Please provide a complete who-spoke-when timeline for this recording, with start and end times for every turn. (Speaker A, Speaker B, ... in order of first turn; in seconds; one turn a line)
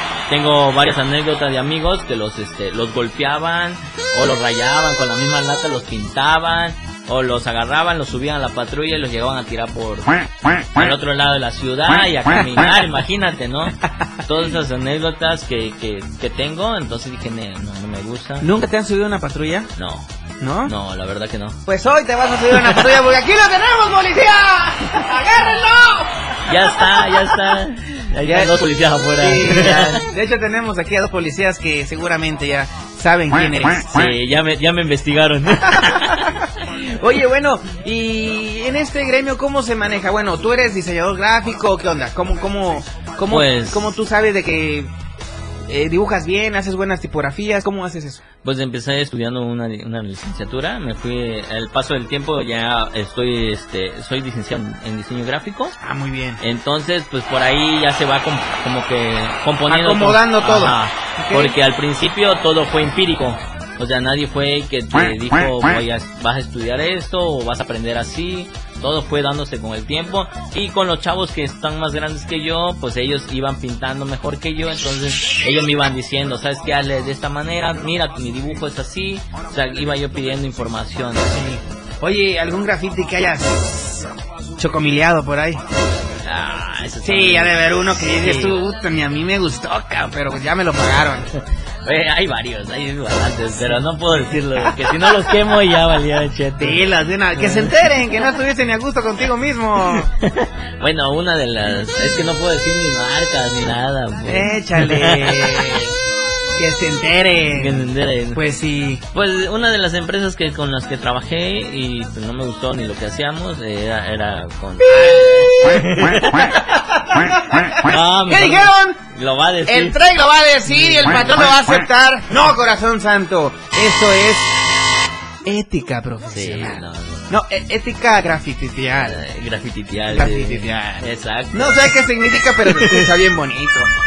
Speaker A: 0.3-18.5
Speaker B: 18.4-19.7
Speaker A: 19.8-20.1
Speaker B: 20.4-20.7
Speaker A: 20.6-21.6
Speaker B: 21.7-26.2
Speaker A: 22.6-22.9
Speaker A: 26.5-30.1
Speaker B: 28.2-28.5
Speaker B: 29.2-34.0
Speaker A: 33.9-36.3
Speaker B: 35.8-36.1
Speaker B: 36.8-44.9
Speaker A: 43.3-44.0
Speaker B: 45.7-48.2
Speaker A: 48.4-55.8
Speaker B: 55.8-56.4
Speaker A: 56.4-81.6
Speaker B: 59.7-61.5
Speaker B: 81.3-84.0
Speaker B: 84.6-85.6
Speaker A: 86.2-88.6
Speaker B: 87.0-91.3
Speaker A: 91.8-97.9
Speaker B: 93.6-95.3
Speaker B: 96.6-100.1
Speaker A: 99.8-105.8
Speaker B: 104.3-105.9
Speaker B: 106.6-109.0
Speaker A: 107.5-108.4
Speaker A: 109.1-116.6
Speaker B: 114.8-119.0
Speaker A: 117.8-120.0
Speaker B: 119.7-124.5
Speaker A: 120.7-121.6
Speaker B: 125.4-129.2
Speaker A: 126.3-127.3
Speaker A: 128.9-133.1
Speaker B: 130.1-133.9